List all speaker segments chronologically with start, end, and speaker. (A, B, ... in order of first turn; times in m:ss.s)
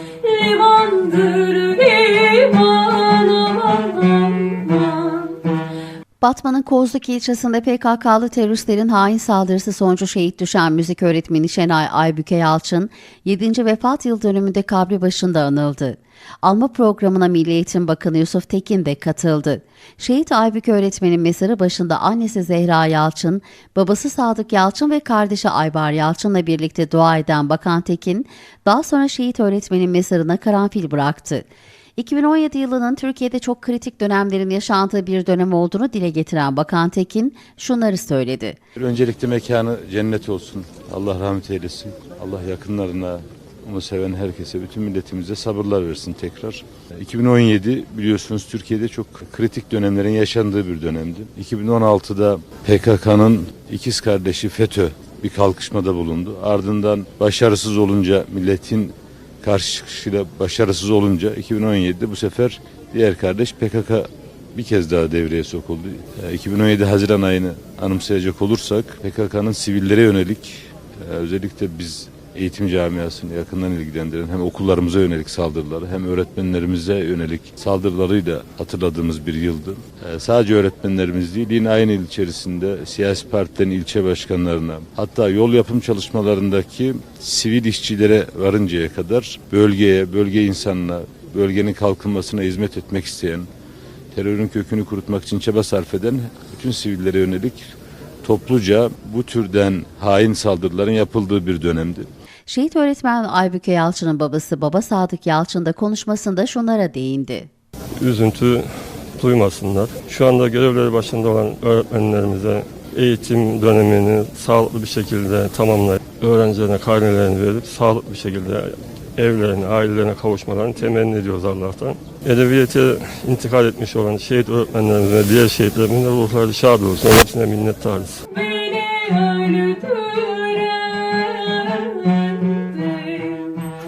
0:00.2-0:05.4 A
0:06.2-0:38.6 B
0:38.8-1:33.5 C
1:34.1-1:37.7 C
1:38.2-1:42.1 C
1:42.5-1:47.5 B
1:48.0-2:08.3 D
2:08.2-2:13.6 A